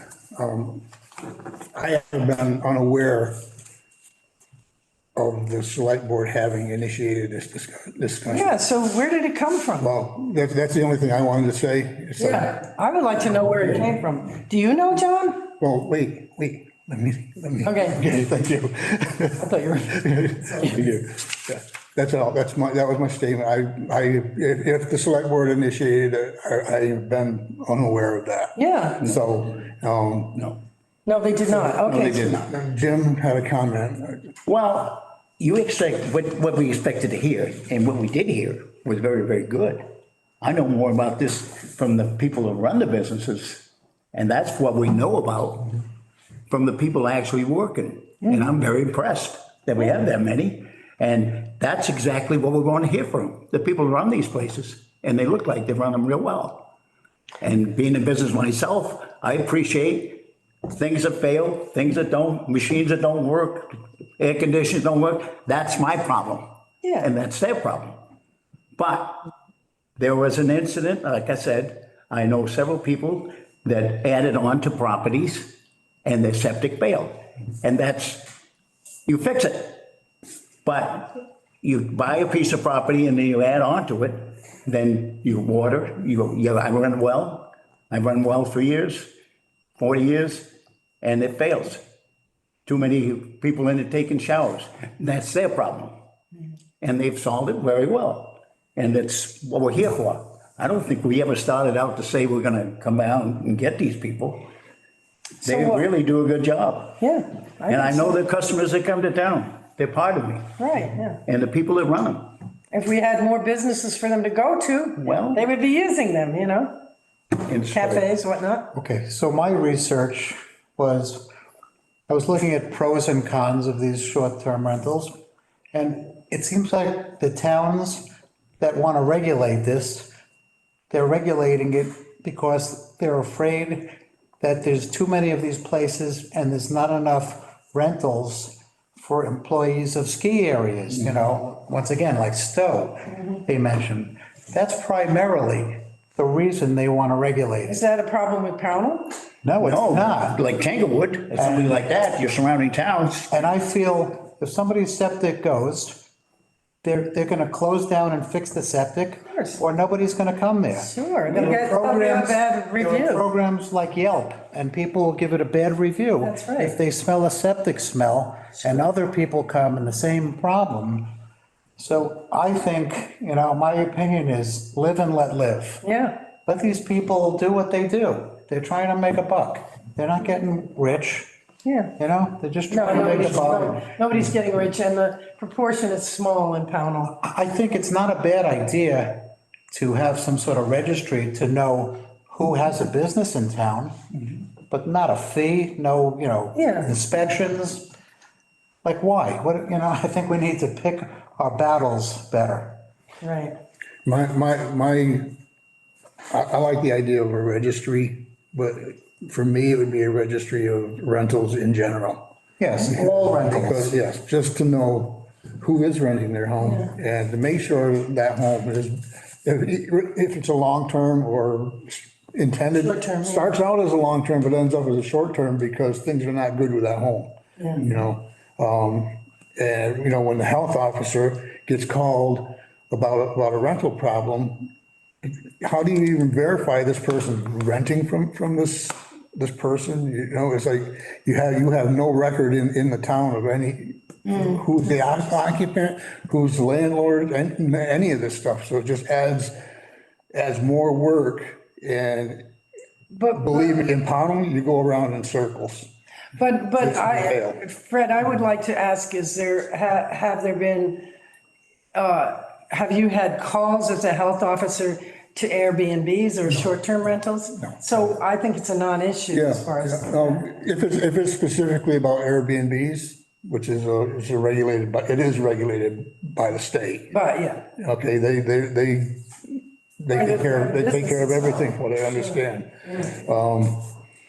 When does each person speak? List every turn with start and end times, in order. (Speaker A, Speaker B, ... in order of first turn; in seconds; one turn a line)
Speaker A: 0.3-0.8
Speaker A: 1.7-3.4
Speaker A: 5.2-8.5
Speaker B: 8.3-9.9
Speaker A: 9.8-12.7
Speaker B: 12.2-15.5
Speaker A: 15.6-30.5
Speaker B: 17.6-18.0
Speaker B: 28.6-29.0
Speaker B: 31.1-32.4
Speaker C: 31.7-32.4
Speaker A: 31.8-34.2
Speaker C: 34.5-39.9
Speaker C: 40.4-45.8
Speaker C: 46.5-56.7
Speaker C: 57.4-66.5
Speaker B: 66.8-67.1
Speaker C: 67.0-68.0
Speaker C: 68.8-69.2
Speaker C: 70.0-78.3
Speaker C: 79.0-79.9
Speaker C: 80.6-89.1
Speaker C: 89.8-91.8
Speaker C: 92.7-95.9
Speaker C: 96.8-104.5
Speaker B: 105.4-105.9
Speaker C: 105.4-107.0
Speaker B: 107.0-108.2
Speaker C: 107.7-110.5
Speaker B: 110.6-111.2
Speaker C: 111.2-112.3
Speaker B: 112.7-116.8
Speaker C: 115.0-115.5
Speaker C: 117.4-118.1
Speaker B: 117.7-118.7
Speaker D: 118.7-121.3
Speaker D: 122.1-125.1
Speaker D: 125.7-128.1
Speaker D: 128.6-130.1
Speaker D: 130.9-147.8
Speaker B: 147.7-149.1
Speaker D: 149.4-150.4
Speaker C: 149.6-153.3
Speaker D: 151.3-151.8
Speaker D: 153.3-156.0
Speaker D: 156.8-171.1
Speaker B: 159.3-159.6
Speaker B: 160.8-163.2
Speaker B: 166.2-166.7
Speaker D: 171.8-175.8
Speaker B: 175.8-176.2
Speaker D: 176.4-181.3
Speaker B: 181.6-181.9
Speaker D: 182.0-183.9
Speaker B: 182.7-187.1
Speaker D: 187.2-193.9
Speaker D: 194.7-197.9
Speaker B: 196.5-196.9
Speaker D: 198.8-202.8
Speaker B: 203.2-203.6
Speaker A: 204.1-205.3
Speaker A: 206.3-212.2
Speaker D: 212.6-213.9
Speaker A: 212.9-234.7
Speaker B: 222.8-223.5
Speaker A: 235.2-249.5
Speaker B: 244.3-244.6
Speaker A: 250.3-252.5
Speaker B: 253.1-253.8
Speaker A: 253.3-255.9
Speaker B: 256.4-261.1
Speaker A: 256.8-257.6
Speaker B: 261.9-270.4
Speaker A: 269.3-277.2
Speaker B: 277.1-277.6
Speaker A: 277.8-283.9
Speaker B: 280.1-281.7